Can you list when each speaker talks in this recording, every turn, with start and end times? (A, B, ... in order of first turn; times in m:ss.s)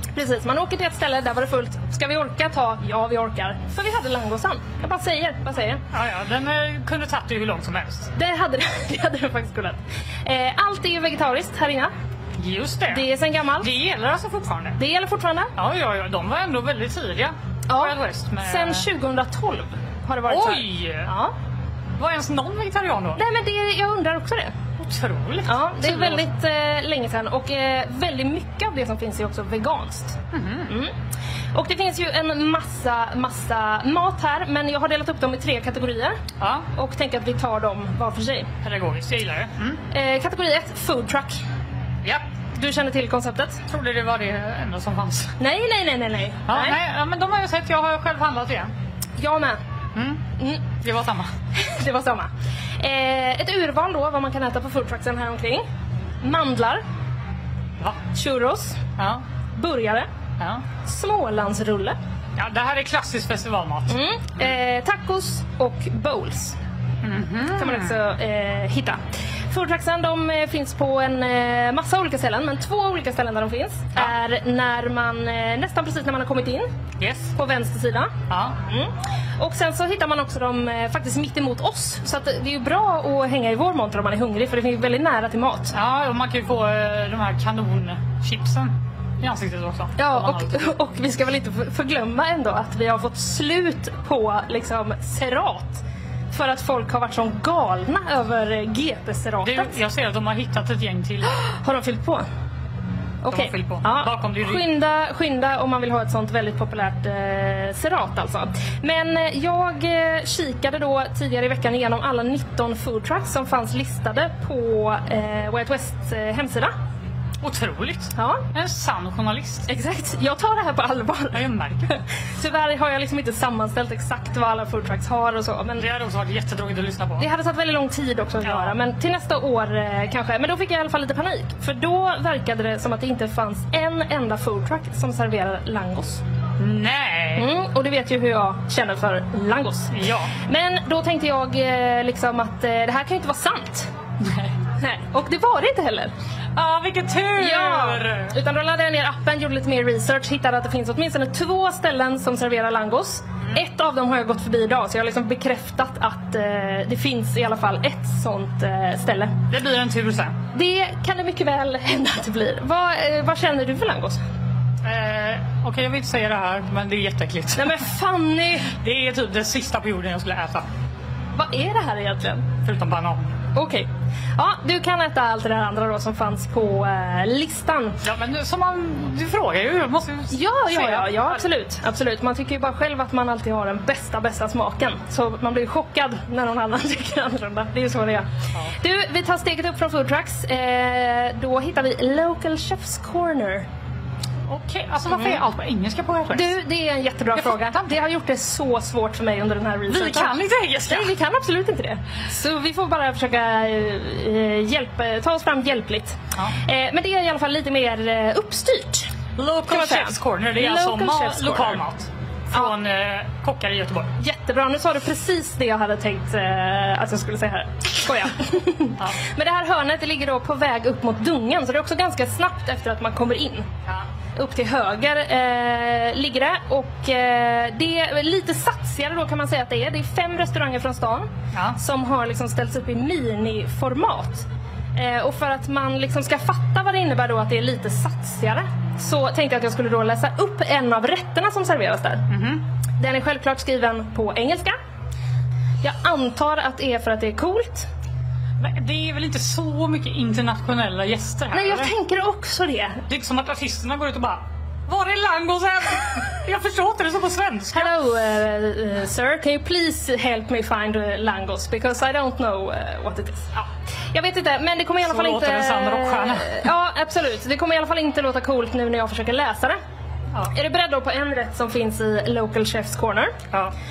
0:00.1-0:05.8 A
0:05.9-0:08.1 B
0:08.2-0:11.9 A
0:12.4-0:13.1 B
0:12.9-0:13.7 A
0:13.6-0:14.8 B
0:14.8-0:15.5 A
0:15.6-0:18.8 B
0:17.7-0:21.3 A
0:20.3-0:21.1 B
0:22.0-0:23.2 B
0:23.2-0:24.5 A
0:24.8-0:26.2 B
0:25.4-0:30.9 A
0:30.3-0:30.7 B
0:31.5-0:36.2 A
0:36.4-0:36.6 B
0:36.7-0:38.5 A
0:38.6-0:39.8 B
0:39.9-0:41.4 A
0:42.5-0:43.6 A
0:43.7-0:45.4 B
0:45.4-0:46.8 A
0:46.5-0:48.7 B
0:49.2-0:49.6 A
0:49.9-0:50.2 B
0:50.4-0:50.6 A
0:50.8-0:51.3 B
0:51.5-0:55.6 A
0:56.2-0:56.8 A
0:58.1-0:58.8 A
0:59.0-0:59.2 B
0:59.5-1:00.1 A
1:00.8-1:02.0 A
1:02.4-1:04.5 B
1:03.9-1:06.6 A
1:07.0-1:08.0 B
1:07.6-1:16.7 A
1:17.0-1:17.3 B
1:17.4-1:18.1 A
1:18.3-1:18.6 B
1:18.6-1:25.7 A
1:25.7-1:30.7 B
1:30.0-1:39.8 A
1:39.4-1:41.4 B
1:41.4-1:42.2 A
1:43.2-1:56.7 A
1:43.3-1:44.7 B
1:57.4-1:59.7 B
1:58.2-1:58.4 A
1:59.7-2:01.4 A
2:01.3-2:02.0 B
2:02.4-2:05.9 A
2:05.8-2:07.3 B
2:07.2-2:16.2 A
2:08.4-2:08.7 B
2:16.6-2:17.5 B
2:17.4-2:23.9 A
2:19.9-2:20.3 B
2:24.2-2:24.5 B
2:24.8-2:26.1 A
2:26.6-2:28.3 B
2:27.4-2:39.4 A
2:39.5-2:40.4 B
2:40.5-2:44.2 A
2:44.8-2:47.8 B
2:47.6-2:48.7 A
2:48.7-2:50.6 B
2:51.3-2:52.4 A
2:52.6-2:53.3 B
2:53.5-2:58.0 A
2:58.0-3:01.4 B
3:00.3-3:08.3 A
3:08.8-3:13.6 A
3:14.5-3:16.6 B
3:15.1-3:15.4 A
3:16.3-3:20.3 A
3:17.4-3:17.9 B
3:19.9-3:21.1 B
3:20.9-3:29.1 A
3:29.4-3:34.1 B
3:29.7-3:31.8 A
3:34.2-3:43.7 A
3:44.3-4:02.2 A
3:51.5-3:51.8 B
4:02.3-4:02.6 B
4:03.0-4:04.8 A
4:05.8-4:07.9 A
4:08.6-4:11.9 B
4:11.5-4:13.0 A
4:13.1-4:18.0 B
4:17.7-4:29.8 A
4:25.0-4:26.7 B
4:30.5-4:33.4 A